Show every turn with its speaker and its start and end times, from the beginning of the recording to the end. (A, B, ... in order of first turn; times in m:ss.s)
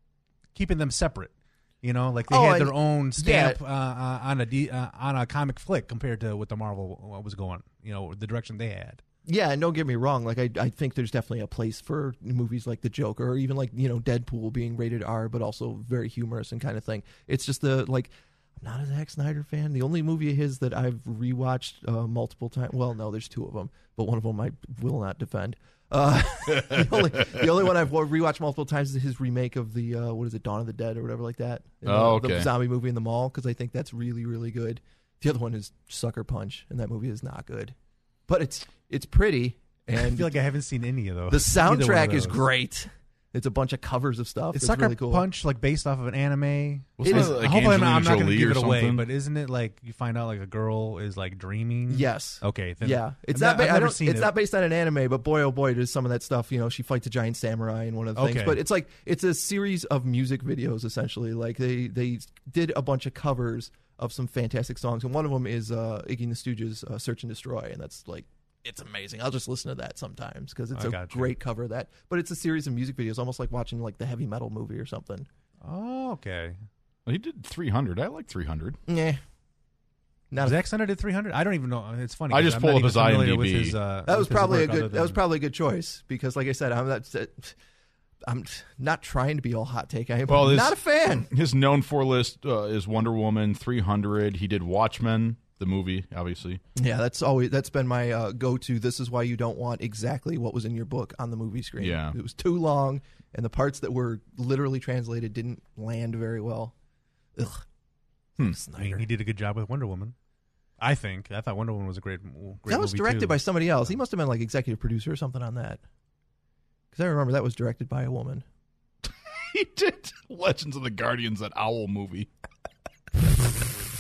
0:00.5-0:09.0 A
0:02.3-0:03.6 B
0:09.2-0:37.8 B
0:26.5-0:27.5 C
0:31.8-0:32.5 C
0:38.3-0:40.3 B
0:40.0-0:42.4 A
0:41.3-0:45.2 B
0:44.5-0:54.3 A
0:47.0-0:49.0 C
0:47.0-0:47.4 B
0:51.9-1:15.3 B
0:58.2-0:58.6 A
1:10.8-1:11.3 A
1:15.6-1:16.6 A
1:17.0-1:18.8 C
1:18.9-1:19.2 B
1:20.3-1:20.6 B
1:20.4-1:25.2 A
1:22.3-1:23.8 C
1:24.0-1:27.6 B
1:28.2-1:31.3 B
1:30.3-1:36.6 C
1:36.8-1:46.7 B
1:41.8-1:42.2 C
1:47.4-1:47.6 B
1:48.4-1:49.1 B
1:48.8-1:50.1 A
1:50.8-1:53.9 A
1:52.7-1:55.8 B
1:56.9-1:58.4 B
1:59.0-2:02.3 C